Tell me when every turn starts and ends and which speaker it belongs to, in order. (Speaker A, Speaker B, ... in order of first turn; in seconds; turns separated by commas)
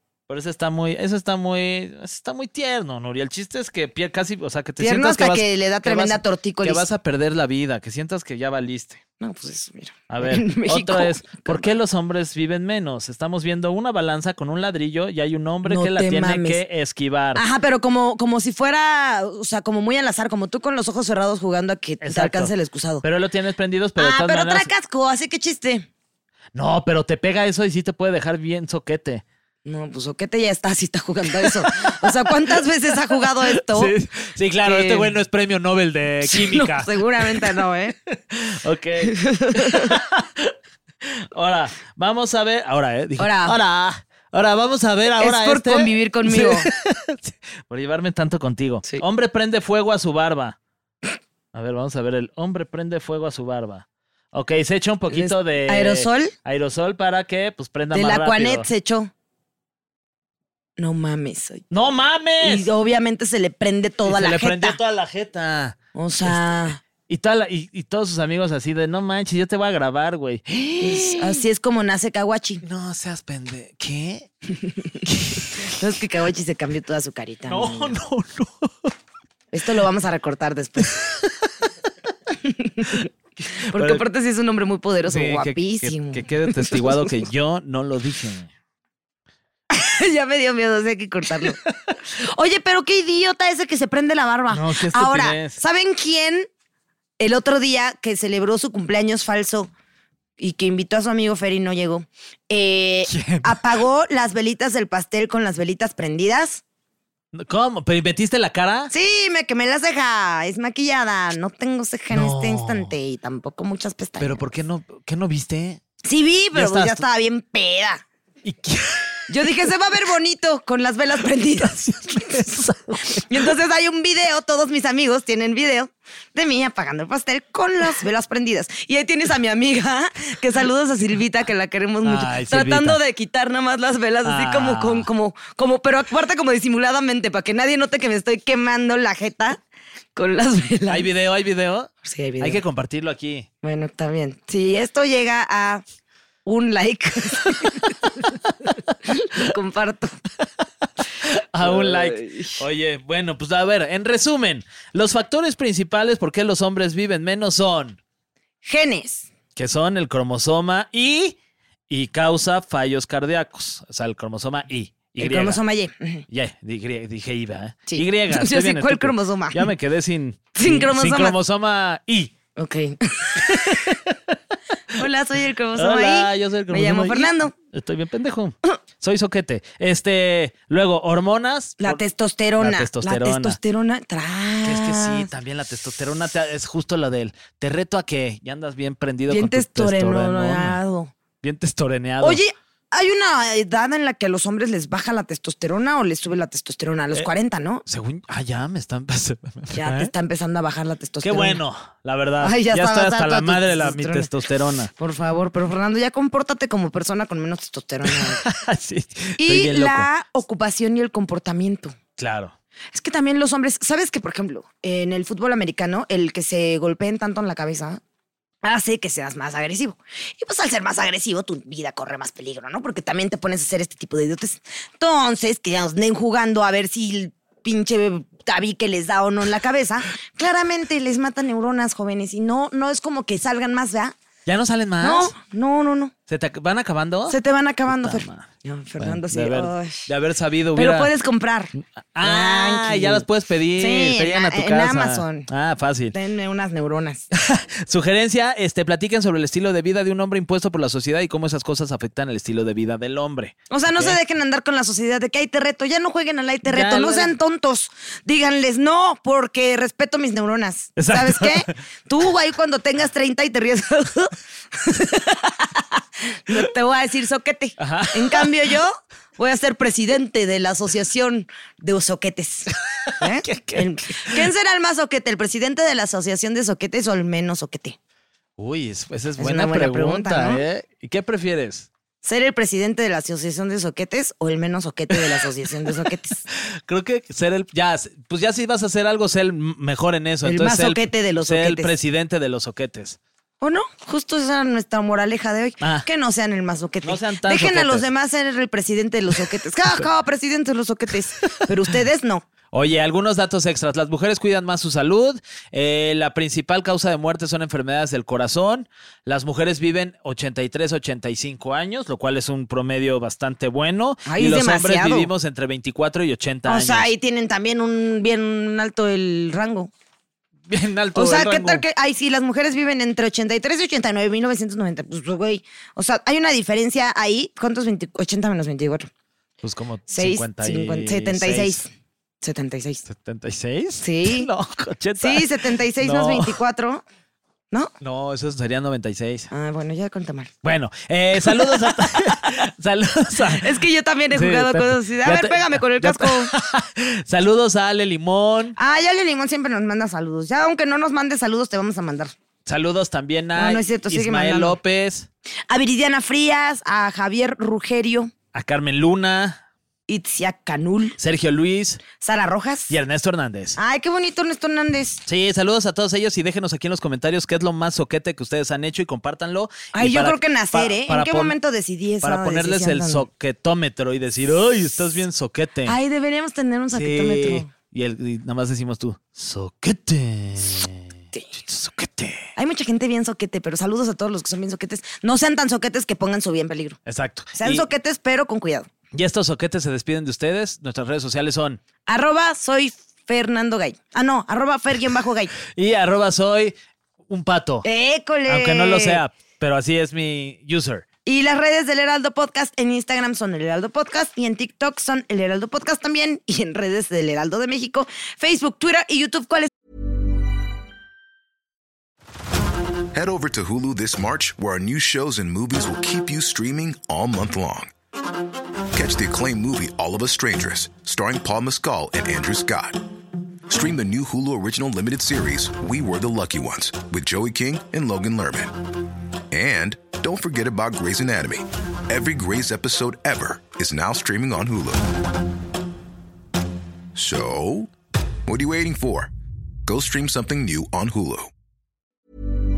Speaker A: 0.3-9.0, Speaker B: 4.8-6.8, Speaker B: 9.2-11.7, Speaker A: 10.1-17.4, Speaker B: 15.6-16.6, Speaker B: 17.3-23.0, Speaker A: 22.0-24.7, Speaker B: 24.0-25.9, Speaker A: 26.5-29.2, Speaker B: 29.6-33.9, Speaker A: 31.3-37.6, Speaker B: 34.6-35.1, Speaker B: 36.2-37.9, Speaker A: 38.1-50.6, Speaker B: 39.0-39.9, Speaker B: 43.2-43.6, Speaker B: 45.2-46.7, Speaker A: 51.5-58.7, Speaker B: 55.1-56.3, Speaker B: 57.9-59.1, Speaker B: 60.8-61.6, Speaker A: 61.7-62.7, Speaker B: 62.4-64.8, Speaker A: 64.0-71.4, Speaker B: 65.9-66.8, Speaker B: 70.8-72.6, Speaker A: 72.6-74.3, Speaker B: 74.6-74.9, Speaker A: 75.0-75.8, Speaker B: 75.5-77.9, Speaker A: 77.5-78.9, Speaker B: 79.5-80.9, Speaker A: 80.8-81.3, Speaker B: 82.4-87.2, Speaker A: 83.4-84.0, Speaker A: 85.0-88.5, Speaker B: 89.7-91.6, Speaker A: 91.4-92.0, Speaker B: 92.2-96.5, Speaker A: 94.5-95.6, Speaker B: 97.2-99.7, Speaker B: 100.4-106.6, Speaker A: 103.1-103.6, Speaker A: 107.3-108.9, Speaker B: 108.9-114.4, Speaker A: 112.1-112.9, Speaker A: 114.2-115.8, Speaker B: 116.0-118.0, Speaker A: 116.5-117.0, Speaker A: 118.4-119.7, Speaker B: 119.3-139.6, Speaker A: 121.6-123.5, Speaker A: 132.0-133.0, Speaker A: 134.2-135.1, Speaker B: 140.1-141.1, Speaker A: 140.9-143.5, Speaker B: 142.0-142.6, Speaker B: 143.6-145.8, Speaker B: 146.4-147.9, Speaker A: 148.7-149.4, Speaker B: 149.1-150.2, Speaker A: 151.2-158.0, Speaker B: 151.6-152.6, Speaker B: 158.6-159.3, Speaker A: 159.6-161.4, Speaker A: 161.9-165.6, Speaker B: 165.2-166.2, Speaker A: 166.3-172.3, Speaker B: 167.9-169.7, Speaker B: 170.5-171.4, Speaker B: 172.6-173.5, Speaker A: 173.3-174.4, Speaker B: 174.9-177.5, Speaker A: 175.7-182.0, Speaker B: 181.8-185.3, Speaker A: 182.6-183.6, Speaker A: 184.6-190.8, Speaker B: 189.3-191.1, Speaker A: 191.4-192.4, Speaker B: 192.2-197.8, Speaker A: 197.8-200.1, Speaker B: 199.7-201.6, Speaker A: 201.2-204.9, Speaker B: 202.4-204.3, Speaker B: 204.9-208.4, Speaker A: 208.0-210.1, Speaker B: 209.4-211.9, Speaker A: 212.2-212.5, Speaker B: 212.9-218.0, Speaker B: 218.6-234.2, Speaker A: 234.4-235.3, Speaker B: 235.0-236.1, Speaker A: 236.3-238.5, Speaker B: 237.3-240.1, Speaker A: 239.0-241.1, Speaker B: 240.7-245.5, Speaker A: 241.8-246.2, Speaker B: 246.1-247.3, Speaker A: 247.3-254.2, Speaker B: 253.7-278.0, Speaker A: 256.6-257.3, Speaker A: 261.0-261.7, Speaker A: 267.8-268.7, Speaker A: 273.1-274.4, Speaker A: 278.6-281.9, Speaker B: 279.4-280.6, Speaker B: 282.2-286.4, Speaker A: 286.5-293.2, Speaker B: 290.4-291.9, Speaker B: 293.6-302.4, Speaker A: 295.8-296.1, Speaker A: 297.0-298.1, Speaker A: 302.7-317.1, Speaker B: 314.2-315.3, Speaker B: 316.6-319.9, Speaker A: 320.7-321.8, Speaker B: 321.1-329.1, Speaker A: 329.6-331.8, Speaker B: 330.1-331.9, Speaker B: 332.4-333.0, Speaker A: 333.1-336.6, Speaker B: 334.0-334.5, Speaker B: 335.2-337.0, Speaker A: 338.0-339.5, Speaker B: 339.5-340.5, Speaker A: 340.6-343.7, Speaker B: 341.4-342.3, Speaker B: 343.5-346.5, Speaker A: 344.3-348.8, Speaker B: 348.8-352.3, Speaker A: 352.6-355.3, Speaker B: 353.5-354.8, Speaker B: 355.7-358.3, Speaker A: 358.5-359.6, Speaker B: 360.1-361.2, Speaker A: 361.2-362.0, Speaker B: 362.2-362.9, Speaker A: 362.9-363.8, Speaker B: 363.8-365.2, Speaker A: 365.2-371.5, Speaker B: 369.9-373.3, Speaker A: 372.2-375.9, Speaker B: 375.9-377.7, Speaker A: 376.9-381.1, Speaker A: 381.6-382.5, Speaker B: 382.6-387.0, Speaker A: 387.1-387.9, Speaker B: 387.5-388.9, Speaker A: 389.1-391.8, Speaker B: 392.1-395.5, Speaker A: 395.7-396.8, Speaker A: 397.3-397.9, Speaker B: 397.8-399.2, Speaker A: 398.5-401.1, Speaker B: 401.2-409.7, Speaker C: 413.1-417.9, Speaker C: 418.9-423.0, Speaker C: 423.7-428.8, Speaker C: 429.5-435.1, Speaker C: 437.1-437.9, Speaker C: 438.4-439.3, Speaker C: 439.9-441.5